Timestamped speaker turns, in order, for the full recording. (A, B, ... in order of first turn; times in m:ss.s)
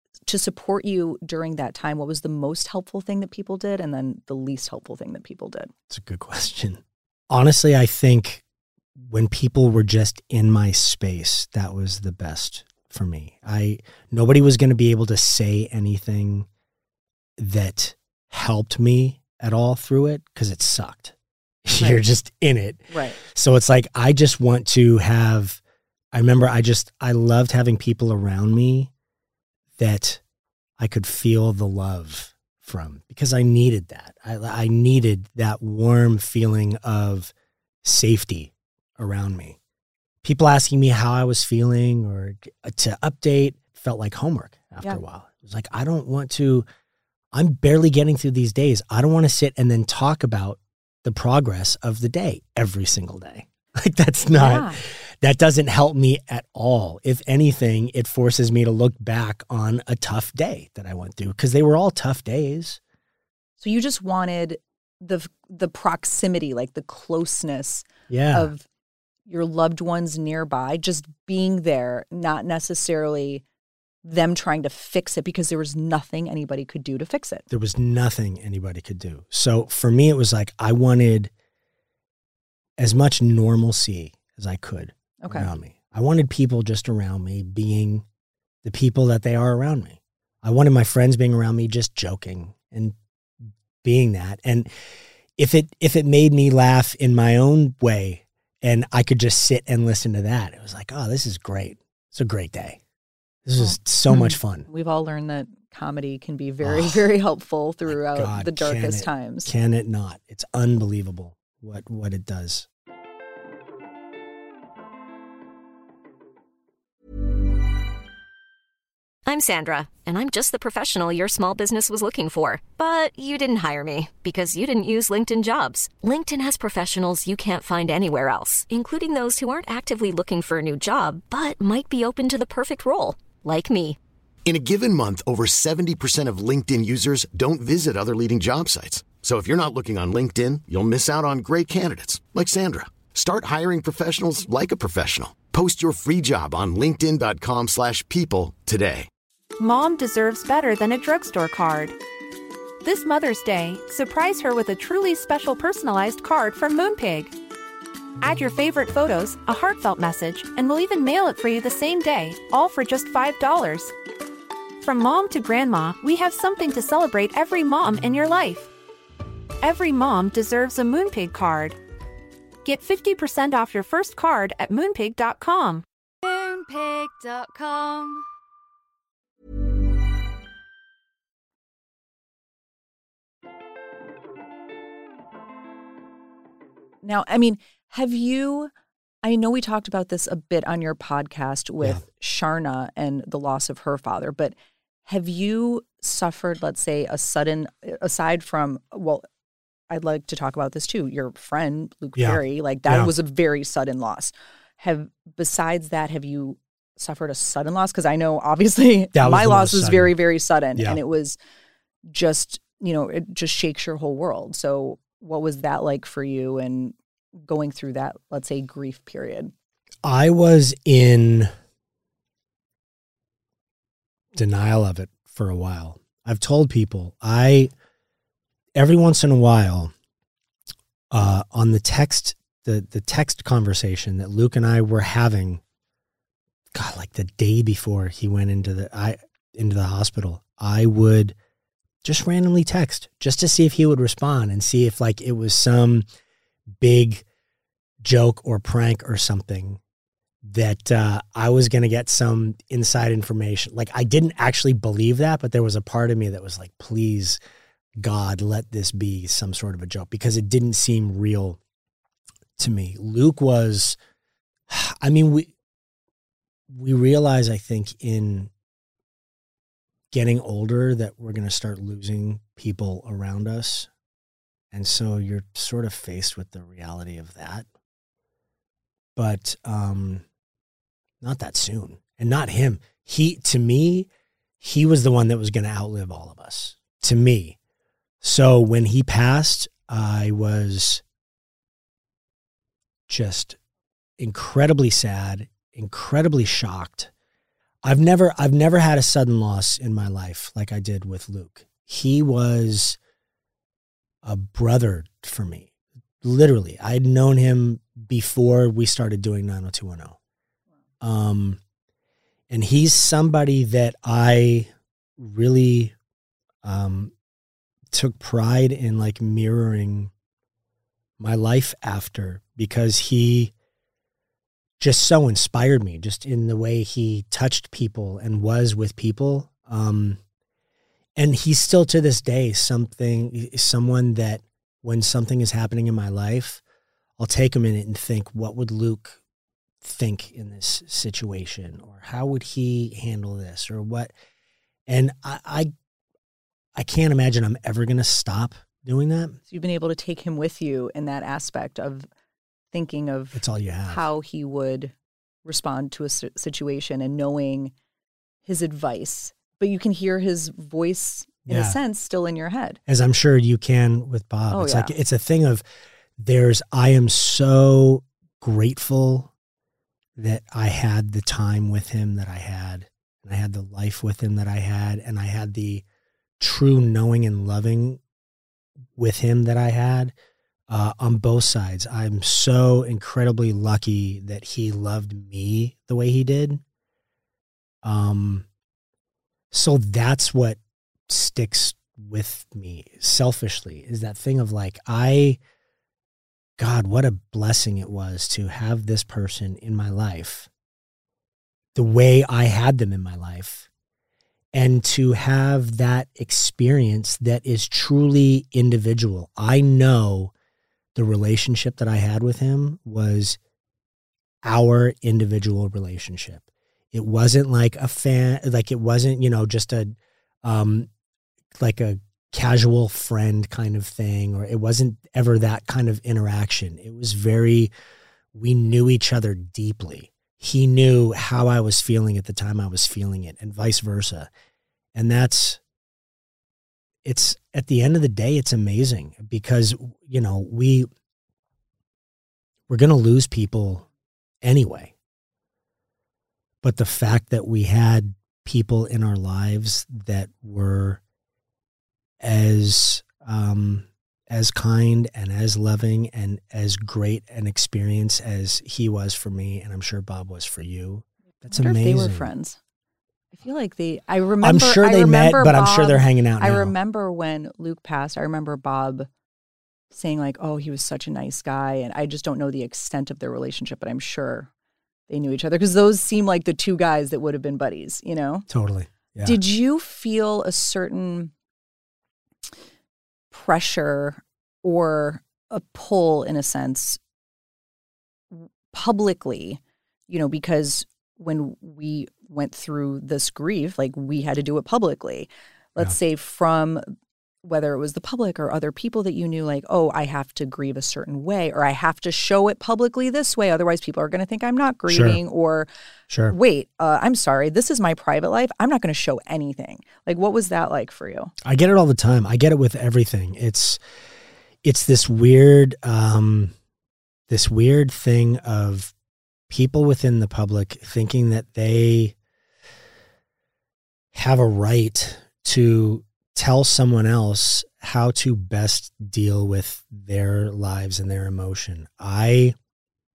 0:00.3-0:05.7 A
0:05.9-0:08.4 B
0:09.0-0:16.5 B
0:17.4-0:25.6 B
0:21.8-0:22.0 A
0:22.9-0:23.2 A
0:26.1-0:28.9 B
0:29.8-0:30.2 B
0:30.8-0:37.3 B
0:37.8-0:39.6 B
0:40.2-0:46.6 B
0:47.3-1:02.8 B
0:54.3-0:54.8 A
1:03.6-1:08.6 A
1:08.1-1:08.5 B
1:09.3-1:13.4 A
1:14.0-1:17.4 A
1:17.5-1:21.3 B
1:22.8-1:28.1 B
1:25.2-1:25.5 A
1:28.6-1:33.0 B
1:33.5-1:34.7 B
1:35.4-1:42.8 B
1:43.4-1:44.7 B
1:43.6-1:49.5 A
1:46.6-1:47.1 B
1:47.9-1:52.7 B
1:59.3-2:14.0 C
2:14.4-2:29.1 D
2:29.6-2:32.0 E
2:32.8-2:37.3 E
2:38.2-2:43.9 E
2:44.8-2:48.7 E
2:49.6-2:51.8 E
2:52.6-2:55.8 E
3:07.0-3:08.7 A
3:09.2-3:14.5 A
3:15.1-3:19.2 A
3:19.9-3:31.4 A
3:22.2-3:23.1 B
3:29.2-3:30.2 B
3:32.1-3:39.5 A
3:40.0-3:41.5 B
3:44.4-3:47.7 B
3:48.8-3:49.9 B
3:51.1-3:55.6 B
3:56.7-4:01.4 B
4:02.0-4:06.0 B
4:06.8-4:07.2 B
4:08.0-4:09.8 B
4:10.4-4:17.4 B
4:18.0-4:21.6 B
4:22.6-4:24.0 B
4:24.7-4:25.5 B
4:26.7-4:28.5 B
4:30.1-4:33.9 B
4:34.7-4:37.7 B
4:39.2-4:40.2 B
4:41.2-4:44.1 B
4:44.6-4:47.6 B
4:48.2-4:51.0 B
4:53.1-4:53.6 B
4:54.2-4:57.1 B
4:57.8-5:03.0 B
5:04.2-5:05.7 B
5:06.2-5:10.2 B
5:11.0-5:11.6 B
5:12.5-5:15.9 B
5:16.6-5:17.1 B
5:17.9-5:20.1 B
5:21.2-5:23.5 B
5:24.8-5:30.2 B
5:31.2-5:36.6 B
5:37.2-5:39.2 B
5:39.8-5:44.1 B
5:44.9-5:45.7 B
5:46.8-5:49.4 B
5:49.5-5:52.1 A
5:52.7-5:54.9 A
5:53.3-5:54.0 B
5:55.5-5:57.7 A
5:58.5-6:02.8 A
6:01.5-6:01.8 B
6:02.9-6:05.6 B
6:04.5-6:04.9 A
6:06.2-6:09.3 B
6:10.2-6:15.8 B
6:16.4-6:18.0 B
6:19.0-6:20.1 B
6:20.7-6:26.6 B
6:27.8-6:28.5 B
6:29.5-6:35.4 B
6:36.6-6:40.5 B
6:41.8-6:43.7 B
6:44.5-6:50.3 B
6:51.0-6:53.4 B
6:54.4-7:00.9 B
7:01.6-7:07.7 B
7:08.3-7:14.3 B
7:15.0-7:15.6 B
7:17.0-7:20.9 B
7:22.7-7:23.8 B
7:24.4-7:24.9 B
7:26.6-7:31.0 B
7:32.2-7:42.3 B
7:41.5-7:42.6 A
7:43.3-7:49.1 A
7:44.4-7:46.7 B
7:49.9-7:54.5 A
7:55.1-7:58.5 A
7:58.5-7:59.4 B
7:59.2-8:01.3 A
8:03.3-8:07.0 A
8:08.3-8:16.8 A
8:17.4-8:25.7 A
8:24.9-8:25.2 B
8:26.1-8:26.4 B
8:26.3-8:31.3 A
8:31.4-8:33.8 B
8:34.6-8:36.5 B
8:37.3-8:38.9 B
8:39.5-8:42.2 B
8:44.1-8:52.6 B